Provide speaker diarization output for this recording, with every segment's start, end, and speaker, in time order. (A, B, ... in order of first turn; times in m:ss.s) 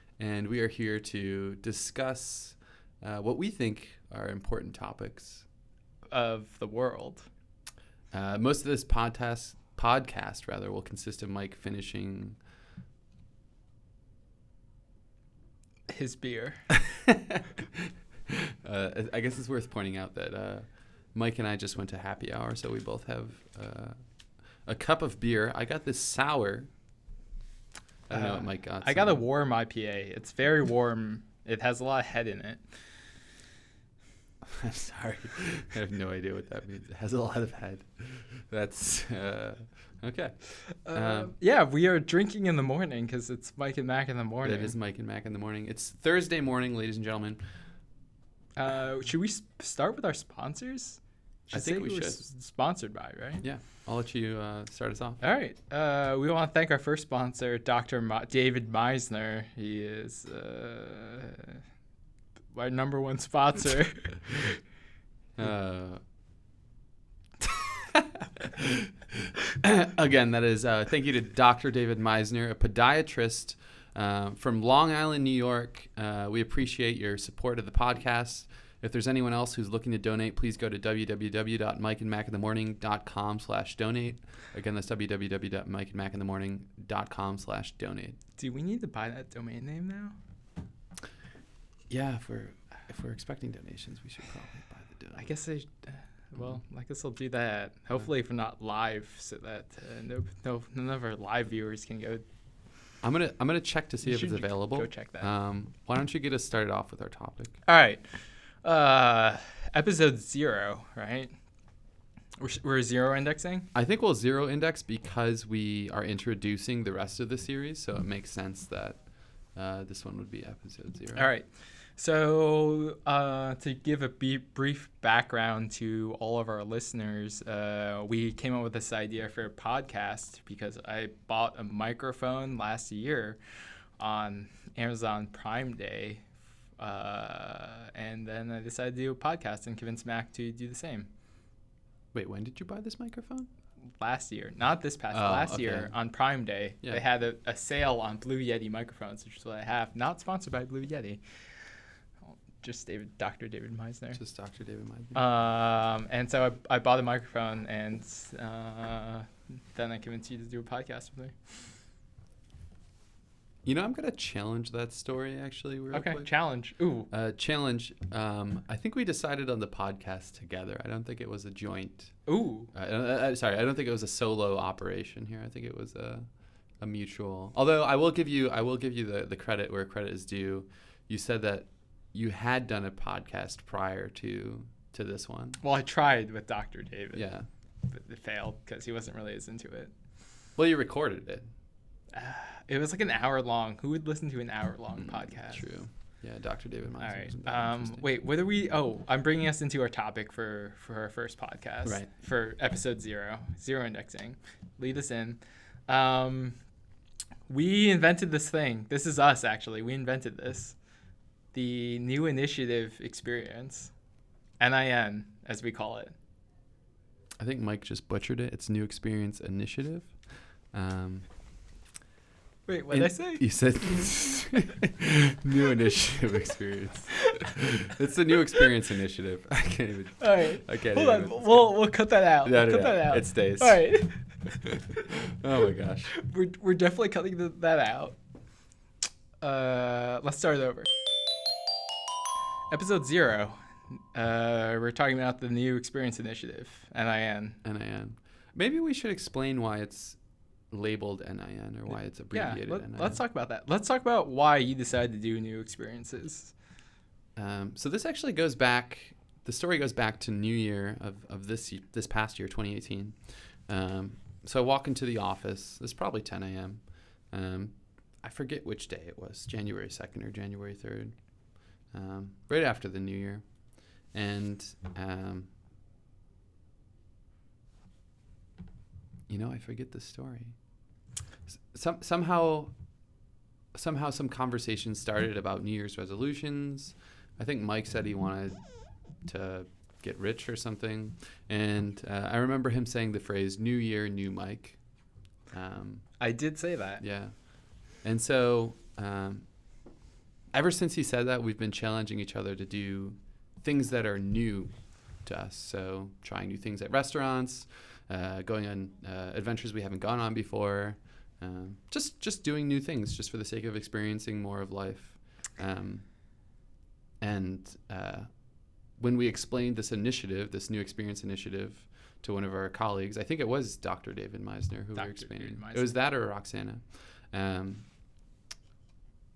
0:00.2-0:05.4 A
0:06.1-0:07.3 B
0:08.1-0:12.4 A
0:15.9-0:16.6 B
0:17.1-0:17.4 A
0:18.3-0:24.0 A
0:24.6-0:26.7 A
0:28.1-0:29.2 A
0:28.1-0:32.6 B
0:34.5-0:41.3 A
0:40.8-0:44.7 B
0:44.4-0:47.4 A
0:48.6-0:53.4 B
0:51.5-0:52.2 A
0:53.4-0:55.2 A
0:55.2-1:01.6 B
1:02.5-1:04.3 B
1:05.4-1:06.0 A
1:09.5-1:28.2 A
1:28.4-1:30.2 B
1:31.9-1:35.3 A
1:35.2-1:42.2 B
1:43.0-1:47.6 A
1:44.0-1:45.3 B
1:47.6-1:48.0 B
1:48.6-1:51.3 B
1:52.4-1:53.7 B
1:53.7-2:01.3 A
2:01.1-2:13.4 B
2:14.0-2:16.2 B
2:16.8-2:21.1 B
2:22.1-2:23.5 A
2:24.0-2:31.2 B
2:25.1-2:25.9 A
2:32.3-2:34.2 B
2:34.1-2:35.2 A
2:35.1-2:41.4 B
2:43.6-2:46.5 A
2:45.9-2:47.1 B
2:47.1-3:05.6 A
2:52.3-2:52.7 B
3:05.6-3:07.3 B
3:07.1-3:07.4 A
3:07.9-3:09.9 B
3:10.6-3:11.4 A
3:12.1-3:15.6 B
3:15.0-3:18.1 A
3:17.0-3:26.6 B
3:27.5-3:30.7 B
3:31.5-3:33.9 B
3:34.6-3:36.1 B
3:37.4-3:41.3 A
3:42.7-3:43.4 B
3:42.9-3:51.8 A
3:50.2-3:54.2 B
3:52.4-3:53.9 A
3:54.7-3:56.1 A
3:56.1-3:58.2 B
3:59.4-4:00.9 B
4:02.7-4:03.6 B
4:04.1-4:07.6 B
4:07.6-4:10.2 A
4:10.7-4:13.2 A
4:12.3-4:16.5 B
4:17.4-4:35.5 A
4:39.3-4:40.6 A
4:41.5-4:42.7 A
4:43.7-4:54.8 A
4:55.5-4:56.2 A
4:56.2-4:57.0 B
4:57.0-4:59.5 A
5:00.5-5:16.1 A
5:17.2-5:27.9 A
5:24.9-5:26.0 B